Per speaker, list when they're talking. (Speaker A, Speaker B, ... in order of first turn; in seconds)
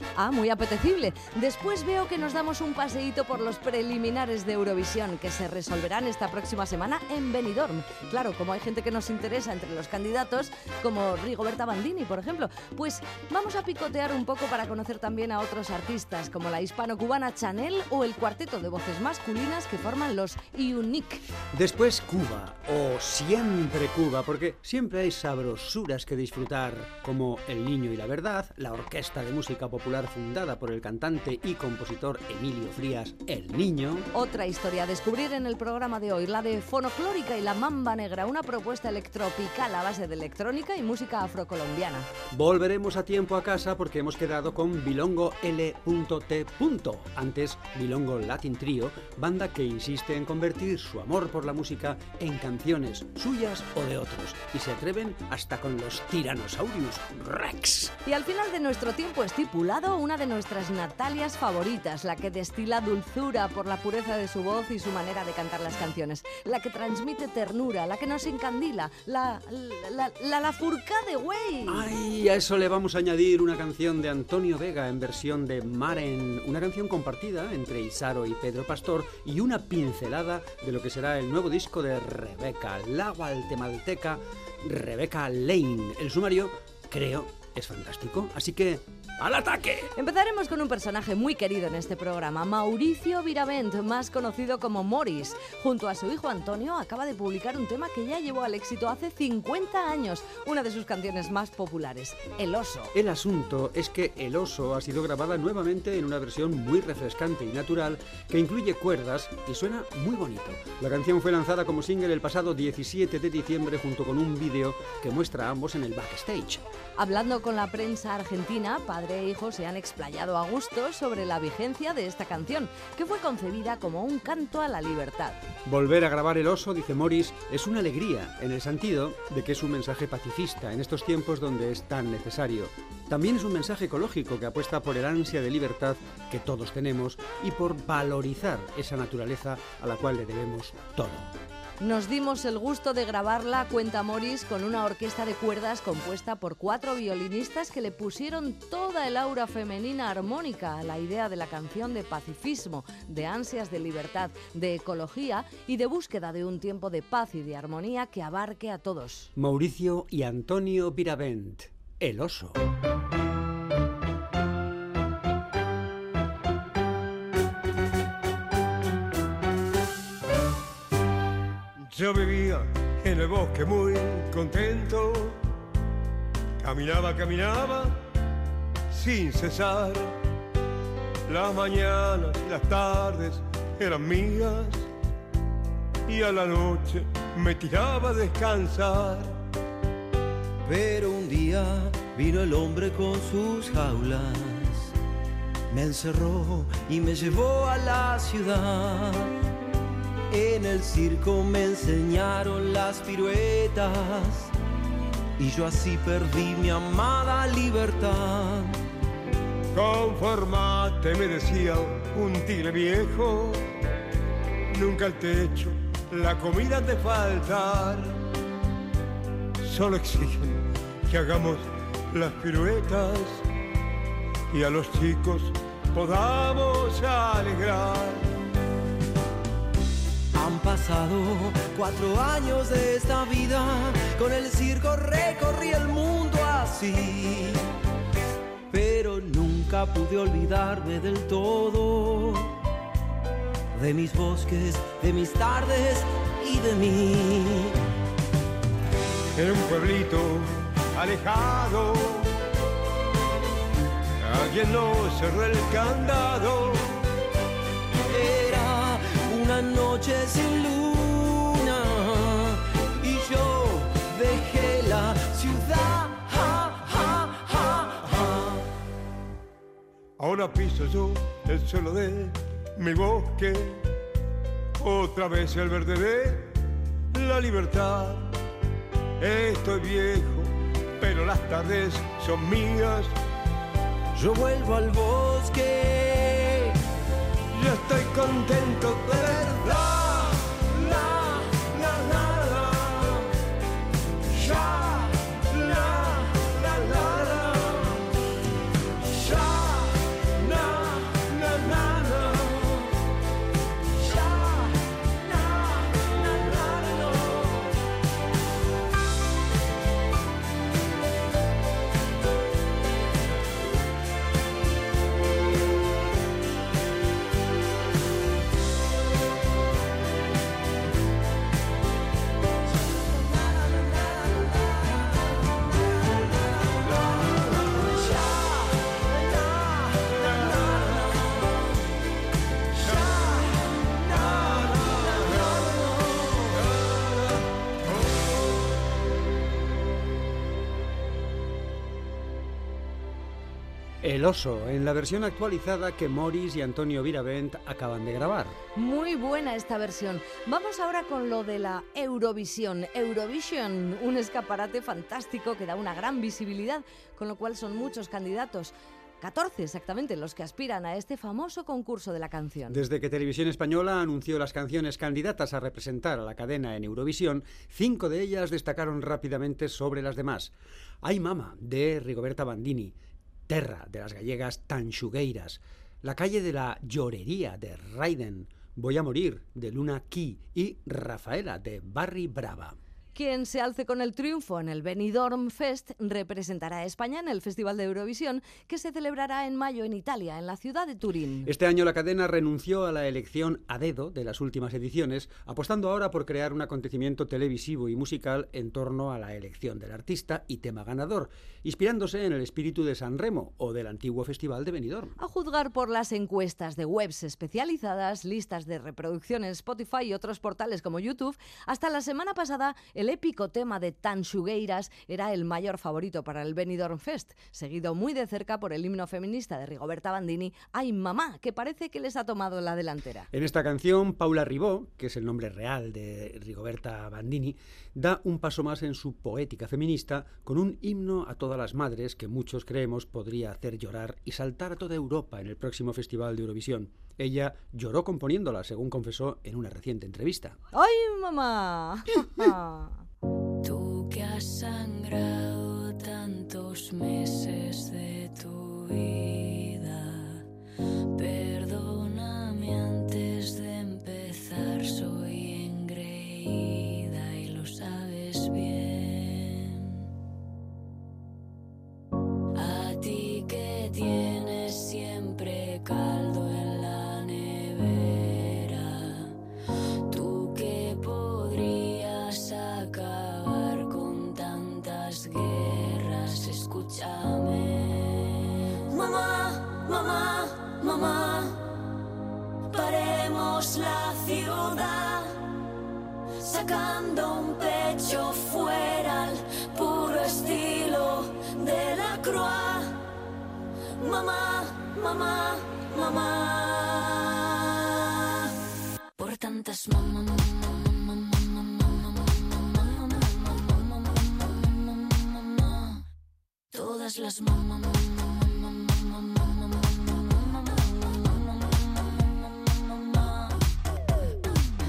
Speaker A: 0.2-21.2, 34.1-42.1, 58.0-71.9, 90.0-102.9, 117.0-125.4, 141.8-159.3, 348.8-362.8, 383.2-391.5, 405.2-423.3, 440.7-443.0
Speaker B: 21.5-34.1, 42.3-57.9, 71.7-89.9, 102.9-116.6, 125.7-141.3, 159.4-162.6, 344.0-348.6, 362.7-372.9, 373.5-382.8, 391.4-405.1, 423.3-440.6
Speaker C: 171.8-175.4, 176.6-178.0, 178.9-180.1, 181.3-184.9, 186.1-189.3, 209.7-213.6, 214.7-218.2, 219.6-223.4, 224.5-228.3, 249.3-252.3, 254.2-256.9, 270.2-273.8, 274.8-276.5, 277.1-278.3, 279.2-283.1, 287.5-289.9, 290.6-291.1, 291.6-292.9, 294.4-294.9, 295.6-297.7, 300.5-302.4
Speaker D: 190.7-194.9, 195.7-199.3, 200.3-204.5, 205.4-208.8, 230.3-237.7, 238.7-242.6, 243.7-247.8, 258.1-268.6, 284.1-286.8, 289.1-293.0, 294.6-294.9, 296.8-297.8, 299.3-299.8, 300.6-302.3, 304.1-304.6, 305.4-307.6, 323.5-324.5, 327.2-331.2, 332.9-336.3
Speaker E: 443.6-450.4, 451.2-460.0, 462.6-469.3, 470.1-481.6, 482.7-485.4, 486.4-493.0, 494.0-497.3, 499.2-500.8, 506.7-508.3